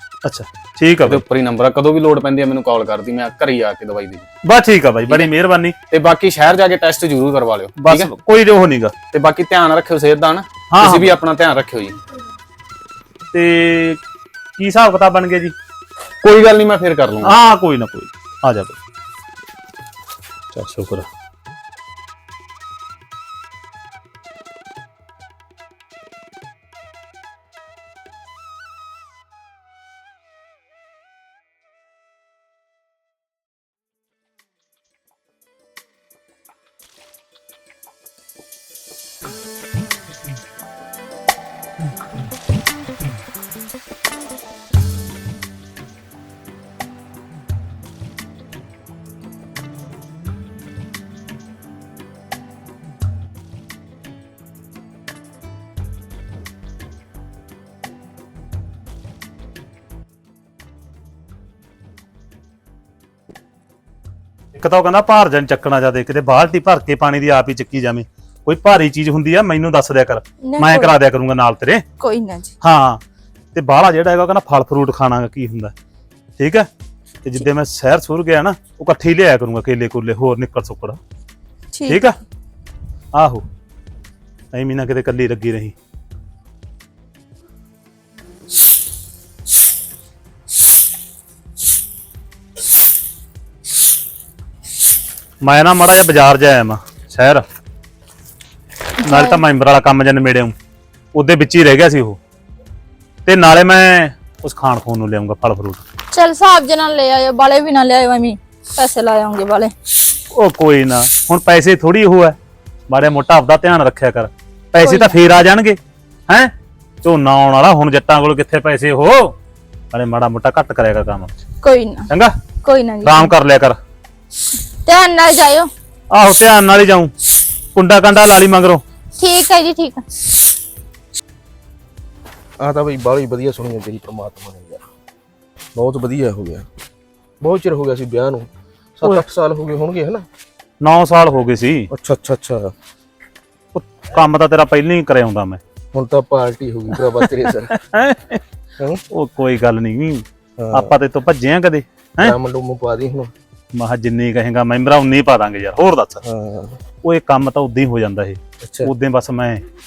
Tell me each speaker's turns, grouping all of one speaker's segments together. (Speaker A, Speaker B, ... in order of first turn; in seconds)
Speaker A: 0.2-1.2, 4.5-5.8, 7.8-8.9, 10.7-11.2, 13.3-14.0, 14.6-15.6, 17.2-18.8, 20.5-21.1, 64.5-71.8, 72.6-73.0, 73.5-75.8, 76.4-76.7, 77.2-81.0, 81.9-82.1, 83.1-83.5, 84.5-85.8, 95.4-97.5, 99.0-100.5, 101.1-102.2, 103.2-105.8, 110.3-112.4, 112.9-119.3, 119.9-121.3, 123.0-123.8, 126.1-127.1, 127.7-128.8, 140.8-141.9, 143.7-145.6, 147.0-148.4, 149.1-152.4, 153.7-156.2, 157.0-159.6
Speaker B: 1.1-4.3, 5.9-8.1, 9.1-12.0, 16.2-17.4
Speaker C: 70.4-71.0, 72.0-72.5, 81.7-82.1, 99.0-99.4, 106.1-109.7, 114.8-115.2, 121.6-122.1, 122.6-123.3, 124.8-125.7, 129.2-130.1
Speaker D: 132.6-134.8, 135.8-136.7, 137.4-138.5, 139.0-140.3, 141.9-142.7, 145.9-147.7, 150.6-151.0, 152.2-153.3, 156.2-156.8, 158.6-158.9